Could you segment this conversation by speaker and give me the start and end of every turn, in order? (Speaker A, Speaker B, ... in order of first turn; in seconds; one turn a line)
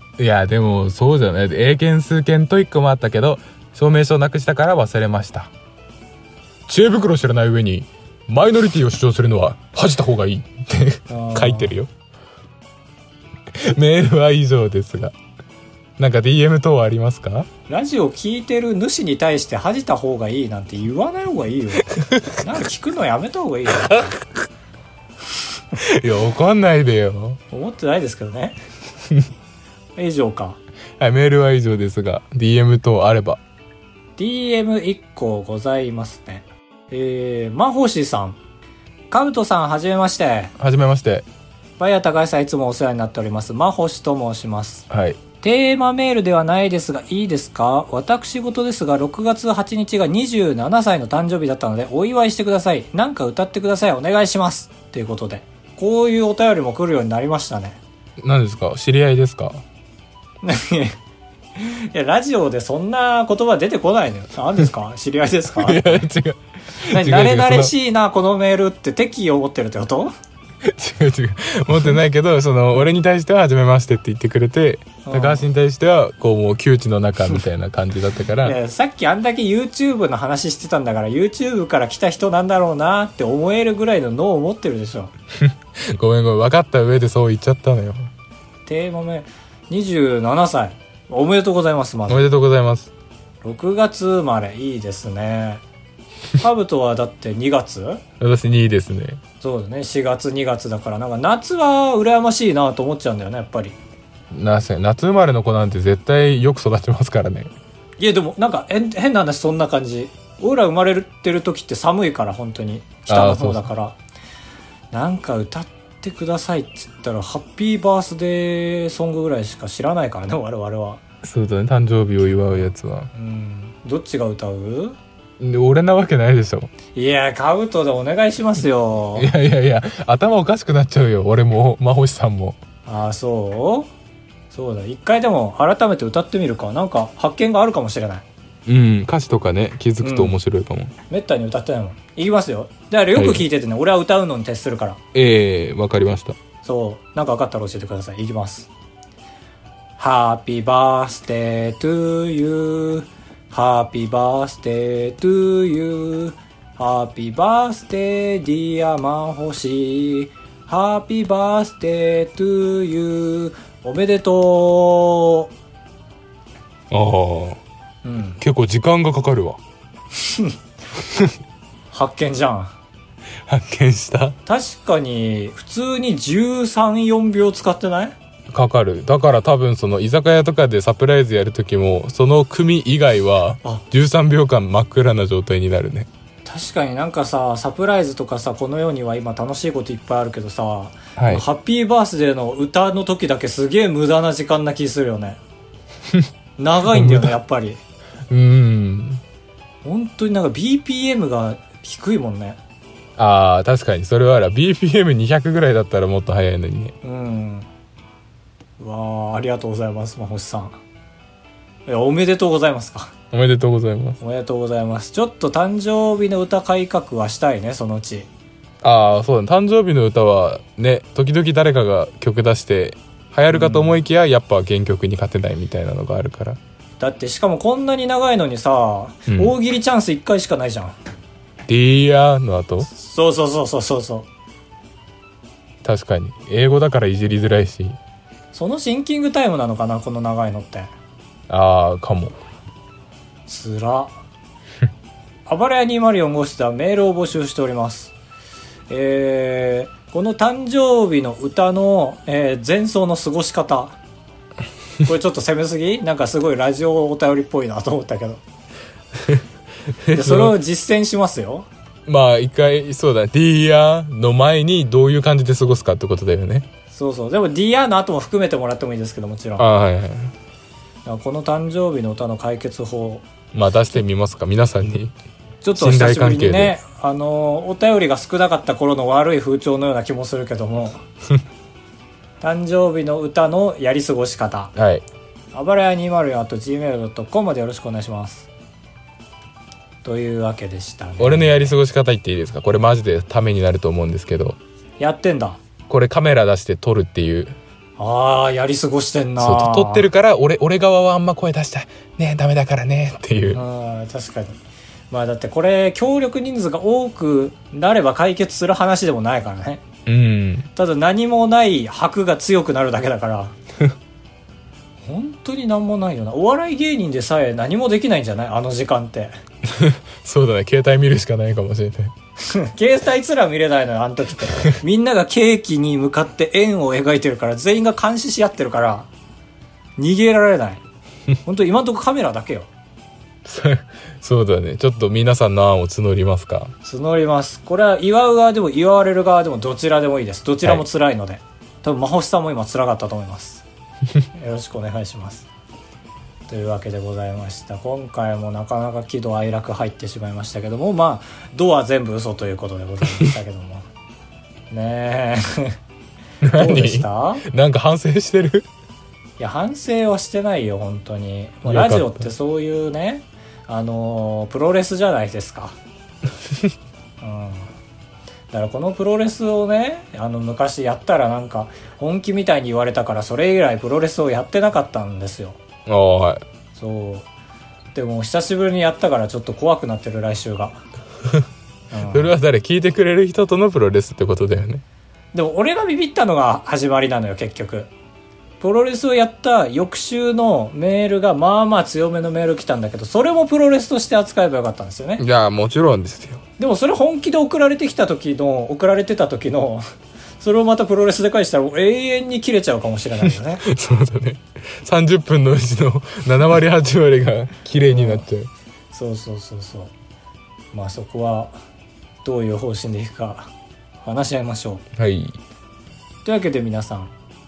Speaker A: 0.2-5.5
Speaker A: 6.7-11.9
Speaker B: 11.1-11.8
Speaker A: 13.6-15.2
Speaker A: 16.0-17.5
Speaker B: 17.7-24.2
Speaker A: 22.0-22.4
Speaker A: 25.8-27.4
Speaker B: 27.5-28.6
Speaker B: 30.0-30.6
Speaker A: 31.0-33.4
Speaker B: 34.2-38.4
Speaker B: 39.1-40.5
Speaker A: 40.6-41.3
Speaker B: 41.8-44.9
Speaker A: 44.9-45.2
Speaker B: 45.4-57.8
Speaker A: 58.2-59.6
Speaker B: 60.4-61.0
Speaker B: 61.6-66.0
Speaker A: 65.6-67.7
Speaker B: 66.8-70.1
Speaker A: 70.6-78.6
Speaker B: 75.0-75.5
Speaker B: 78.4-85.1
Speaker A: 85.4-88.1
Speaker B: 88.7-92.3
Speaker A: 92.1-92.9
Speaker B: 93.4-95.6
Speaker B: 96.4-98.0
Speaker A: 98.2-99.2
Speaker B: 99.4-103.8
Speaker A: 104.3-107.5
Speaker B: 108.0-114.0
Speaker A: 113.1-113.7
Speaker B: 114.9-121.0
Speaker A: 121.2-123.1
Speaker B: 123.1-125.0
Speaker A: 125.4-126.7
Speaker B: 126.9-129.3
Speaker A: 129.2-132.6
Speaker B: 132.9-133.9
Speaker B: 134.5-138.2
Speaker A: 138.7-140.9
Speaker B: 140.0-140.4
Speaker B: 141.1-145.0
Speaker A: 143.2-143.5
Speaker A: 145.1-146.4
Speaker B: 146.6-148.7
Speaker B: 150.0-165.5
Speaker A: 166.9-167.6
Speaker B: 168.0-168.4
Speaker A: 168.4-169.6
Speaker B: 170.2-170.6
Speaker A: 171.0-171.4
Speaker B: 171.9-172.8
Speaker A: 173.5-174.4
Speaker B: 174.5-178.2
Speaker A: 178.5-186.1
Speaker B: 186.4-195.4
Speaker A: 191.2-191.4
Speaker B: 196.6-197.8
Speaker A: 196.9-197.4
Speaker A: 198.3-199.2
Speaker B: 199.8-202.6
Speaker A: 203.2-206.9
Speaker B: 207.0-207.7
Speaker B: 208.8-210.8
Speaker B: 211.9-213.1
Speaker A: 213.3-214.2
Speaker B: 214.2-218.3
Speaker A: 218.8-226.6
Speaker B: 223.5-224.0
Speaker B: 227.0-230.9
Speaker A: 231.7-232.9
Speaker B: 232.9-234.3
Speaker A: 235.8-238.0
Speaker B: 238.5-240.9
Speaker A: 241.5-242.4
Speaker B: 243.5-244.2
Speaker B: 245.5-248.1
Speaker B: 248.9-254.0
Speaker B: 255.1-258.4
Speaker A: 260.0-260.6
Speaker B: 260.1-261.7
Speaker A: 262.1-266.7
Speaker B: 266.9-269.7
Speaker A: 269.6-270.3
Speaker B: 271.1-273.2
Speaker A: 273.5-275.1
Speaker B: 275.6-281.0
Speaker A: 275.8-276.8
Speaker B: 282.4-284.7
Speaker A: 284.8-285.0
Speaker B: 285.5-288.5
Speaker B: 290.0-291.8
Speaker A: 291.2-294.6
Speaker B: 295.0-295.6
Speaker A: 295.9-297.6
Speaker B: 298.0-300.1
Speaker A: 299.4-303.6
Speaker B: 303.5-304.6
Speaker B: 305.1-309.8
Speaker A: 310.1-310.7
Speaker B: 310.8-313.5
Speaker B: 315.0-319.3
Speaker A: 319.7-322.1
Speaker B: 322.4-329.1
Speaker B: 330.0-330.8
Speaker B: 331.4-332.7
Speaker A: 333.4-336.7
Speaker B: 336.8-343.6
Speaker B: 344.3-345.5
Speaker B: 346.5-353.9
Speaker B: 354.7-355.8
Speaker A: 356.4-358.7
Speaker B: 356.5-357.4
Speaker B: 359.4-365.8
Speaker A: 361.7-362.3
Speaker B: 367.2-367.7
Speaker B: 368.5-375.6
Speaker A: 375.9-376.4
Speaker B: 376.8-377.3
Speaker B: 377.9-380.8
Speaker B: 381.9-382.3
Speaker A: 382.1-384.8
Speaker B: 385.3-387.9
Speaker B: 388.6-395.2
Speaker A: 395.2-396.4
Speaker B: 396.6-399.8
Speaker B: 400.4-403.6
Speaker A: 403.6-408.5
Speaker B: 407.9-408.2
Speaker B: 408.9-409.9
Speaker B: 410.7-411.5
Speaker B: 412.2-413.5
Speaker B: 414.0-414.8
Speaker A: 415.0-415.4
Speaker B: 416.2-417.1